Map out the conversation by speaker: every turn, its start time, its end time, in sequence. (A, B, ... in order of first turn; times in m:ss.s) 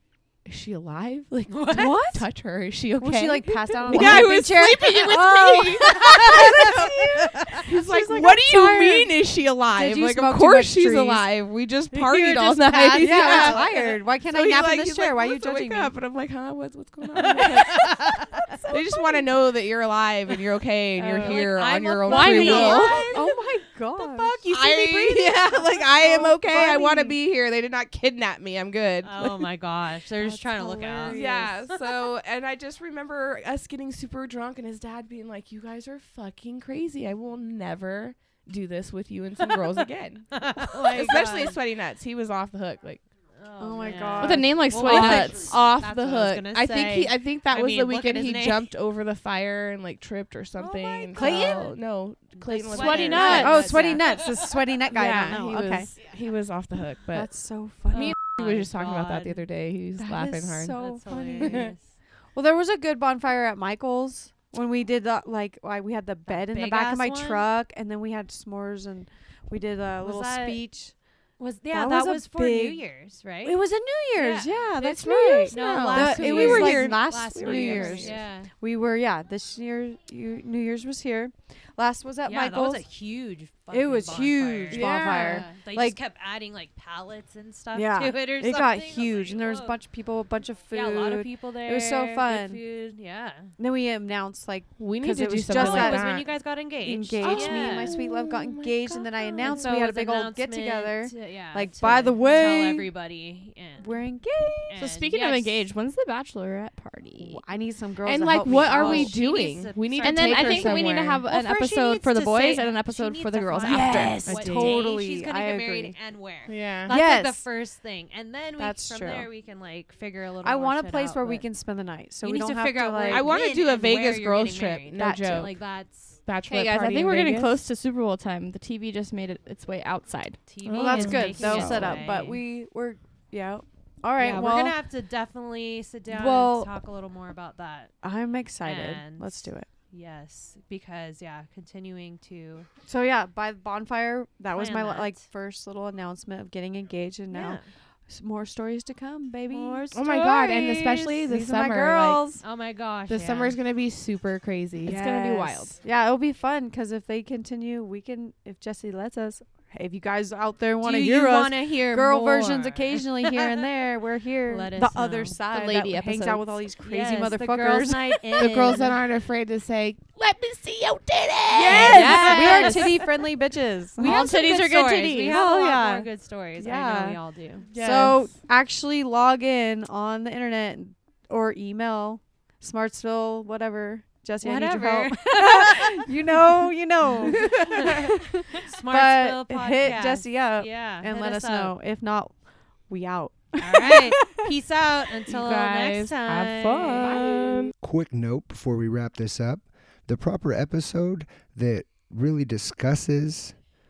0:00.4-0:06.9 A
0:01.6-0:02.0 B
0:01.7-0:02.3 C
0:03.0-0:11.3 C
0:04.0-0:04.4 B
0:05.1-0:07.6 B
0:07.5-0:18.2 A
0:12.0-0:12.2 B
0:12.3-0:13.3 D
0:12.6-0:15.9 C
0:13.1-0:13.8 B
0:17.2-0:18.7 B
0:18.5-0:19.2 C
0:18.7-0:23.2 A
0:21.0-0:21.5 C
0:21.0-0:25.4 B
0:22.1-0:24.4 C
0:22.2-0:22.6 D
0:24.5-0:29.5 A
0:25.2-0:27.2 C
0:29.0-0:32.1 B
0:30.2-0:31.5 C
0:31.1-0:43.0 A
0:40.3-0:41.6 B
0:43.4-0:48.7 B
0:43.6-0:45.2 C
0:44.2-0:45.6 D
0:44.8-0:54.0 A
0:50.6-0:51.8 B
0:51.2-0:51.6 C
0:52.4-0:54.7 B
0:52.7-0:53.7 D
0:53.2-0:55.9 C
0:54.9-0:57.3 A
0:57.1-0:58.2 C
0:57.9-0:59.4 B
0:57.9-1:00.8 A
1:00.0-1:01.7 C
1:00.8-1:01.9 B
1:01.4-1:01.7 A
1:02.4-1:10.9 C
1:06.3-1:07.5 B
1:10.0-1:10.6 B
1:11.4-1:13.6 B
1:11.7-1:12.8 C
1:13.4-1:22.8 C
1:14.2-1:15.0 B
1:14.8-1:18.3 A
1:15.5-1:18.5 B
1:22.2-1:29.8 B
1:23.7-1:26.0 C
1:24.7-1:25.5 A
1:27.7-1:32.6 C
1:30.7-1:33.5 B
1:33.6-1:36.2 C
1:34.8-1:36.4 A
1:35.5-1:38.0 B
1:36.8-1:42.9 C
1:37.2-1:39.8 A
1:39.4-1:44.0 B
1:43.8-1:44.8 C
1:44.7-1:45.6 B
1:44.8-1:47.4 D
1:47.2-1:49.2 C
1:48.0-1:51.2 A
1:48.6-2:01.4 B
1:50.0-1:54.2 D
1:53.6-1:54.8 A
1:53.7-1:56.0 C
1:56.5-1:57.0 A
1:56.9-1:57.4 C
1:58.6-1:59.3 C
2:00.4-2:03.3 C
2:02.2-2:06.2 B
2:03.1-2:05.6 A
2:05.0-2:05.4 C
2:06.2-2:07.6 A
2:06.5-2:10.5 D
2:10.5-2:12.4 B
2:10.6-2:14.8 C
2:10.7-2:11.5 A
2:11.1-2:12.0 D
2:14.2-2:17.9 B
2:16.1-2:16.7 C
2:18.0-2:19.7 C
2:18.6-2:22.7 B
2:22.9-2:32.4 C
2:24.5-2:25.2 B
2:27.3-2:27.7 B
2:29.5-2:30.2 B
2:29.9-2:32.3 A
2:32.4-2:33.6 B
2:33.1-2:35.8 A
2:34.8-2:48.2 C
2:40.8-2:43.7 B
2:44.5-2:45.4 B
2:45.5-2:46.5 D
2:46.8-2:49.0 B
2:48.4-2:52.7 A
2:51.5-2:57.2 C
2:51.6-2:53.0 B
2:51.7-2:53.0 D
2:54.0-2:57.7 B
2:54.0-2:55.4 D
2:57.6-2:58.4 A
2:57.8-3:12.4 C
3:04.4-3:06.1 B
3:07.2-3:11.8 B
3:07.4-3:07.9 A
3:12.9-3:14.4 C
3:13.6-3:17.4 B
3:15.2-3:17.7 A
3:16.9-3:17.6 D
3:17.8-3:23.6 E